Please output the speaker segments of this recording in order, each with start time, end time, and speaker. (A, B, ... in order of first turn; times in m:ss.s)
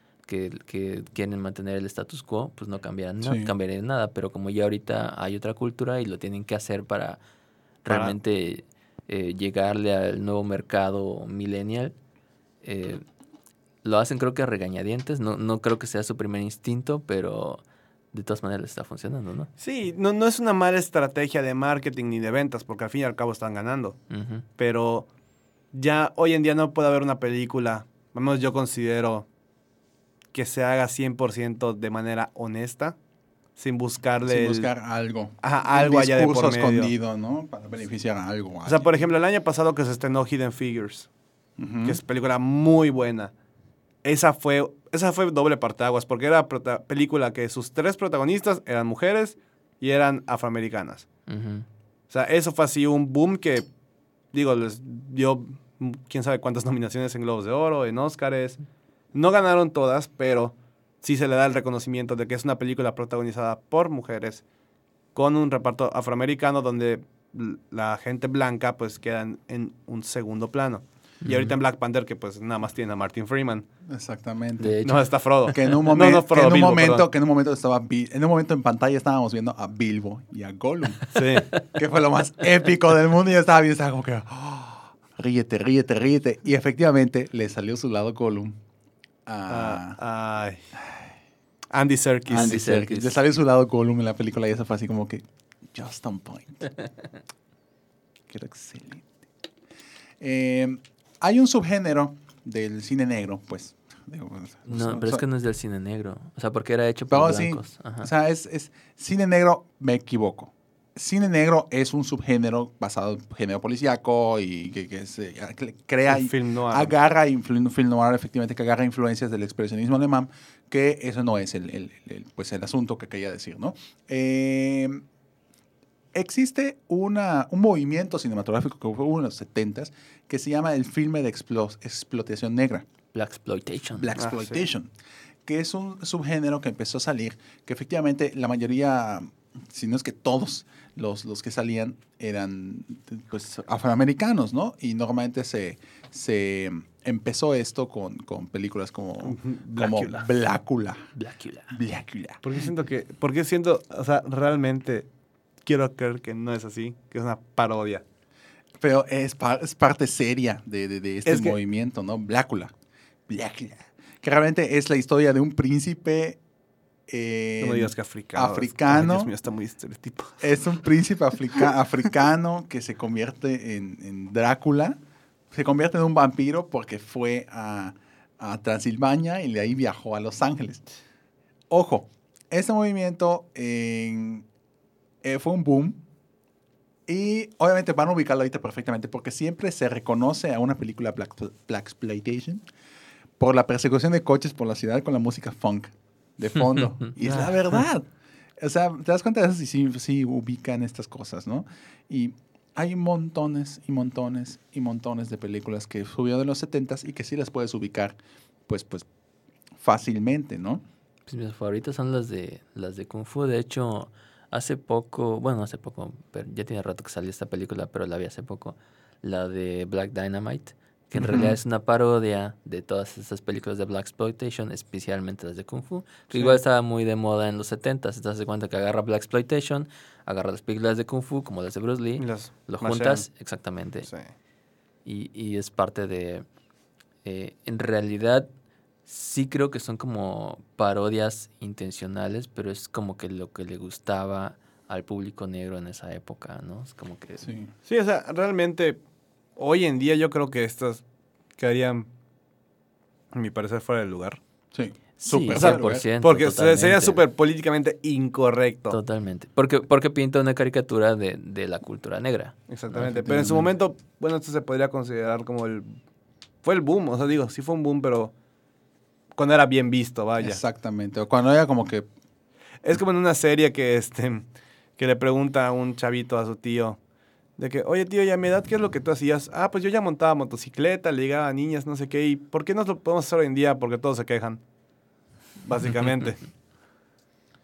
0:00.3-0:07.2 A
0:03.2-0:03.5 B
0:07.8-0:12.0 A
0:07.9-0:08.2 C
0:12.6-0:13.0 A
0:13.8-0:19.5 A
0:19.6-0:24.0 C
0:24.1-0:24.4 A
0:24.6-0:25.1 C
0:25.7-0:29.2 C
0:30.3-0:33.0 C
0:33.6-0:34.7 C
0:34.2-0:39.0 B
0:35.4-0:36.9 C
0:38.6-0:41.1 C
0:41.6-0:42.0 B
0:41.8-0:43.3 C
0:44.0-0:51.1 C
0:51.3-0:51.7 A
0:52.1-0:53.7 C
0:54.3-0:58.6 C
0:59.1-1:04.4 C
1:05.1-1:13.6 C
1:11.2-1:11.5 A
1:13.9-1:14.8 B
1:14.6-1:15.0 A
1:14.8-1:17.1 C
1:15.5-1:28.6 B
1:21.1-1:21.5 C
1:29.3-1:30.0 B
1:29.5-1:30.6 C
1:30.8-1:31.1 B
1:31.7-1:32.6 C
1:32.3-1:36.7 B
1:32.3-1:33.2 A
1:38.3-1:39.1 B
1:40.2-1:45.2 B
1:44.7-1:48.1 A
1:47.1-2:05.0 B
1:56.1-1:56.9 C
2:06.1-2:12.8 B
2:13.1-2:14.1 A
2:14.0-2:14.9 B
2:14.2-2:14.6 C
2:15.4-2:31.1 B
2:29.2-2:30.3 C
2:31.1-2:31.7 A
2:31.7-2:32.4 B
2:32.4-2:35.1 C
2:35.6-2:38.0 C
2:38.8-2:42.7 B
2:41.3-2:41.6 C
2:43.3-2:46.4 B
2:47.1-2:49.3 B
2:47.6-2:50.6 C
2:50.4-2:55.0 B
2:55.5-3:00.9 B
3:01.7-3:04.4 B
3:05.2-3:06.0 B
3:07.1-3:12.6 B
3:13.4-3:18.1 B
3:17.2-3:17.6 C
3:18.6-3:28.2 B
3:28.7-3:29.1 B
3:29.8-3:30.8 B
3:31.3-3:54.1 A
3:41.2-3:41.6 B
3:46.3-3:46.6 C
3:52.2-3:53.3 C
3:54.0-3:54.3 C
3:55.0-3:56.4 A
3:57.2-3:58.5 A
3:59.1-4:07.6 A
4:07.4-4:07.7 B
4:07.9-4:09.0 C
4:09.6-4:11.0 C
4:11.6-4:12.1 C
4:13.3-4:14.4 C
4:14.7-4:16.0 B
4:15.2-4:17.2 A
4:15.6-4:19.0 C
4:18.9-4:22.6 A
4:22.7-4:26.0 C
4:23.0-4:23.7 B
4:26.6-4:28.3 C
4:29.4-4:30.6 C
4:30.4-4:32.1 B
4:32.8-4:34.4 C
4:35.0-4:37.0 C
4:37.6-4:44.6 C
4:45.6-4:46.4 C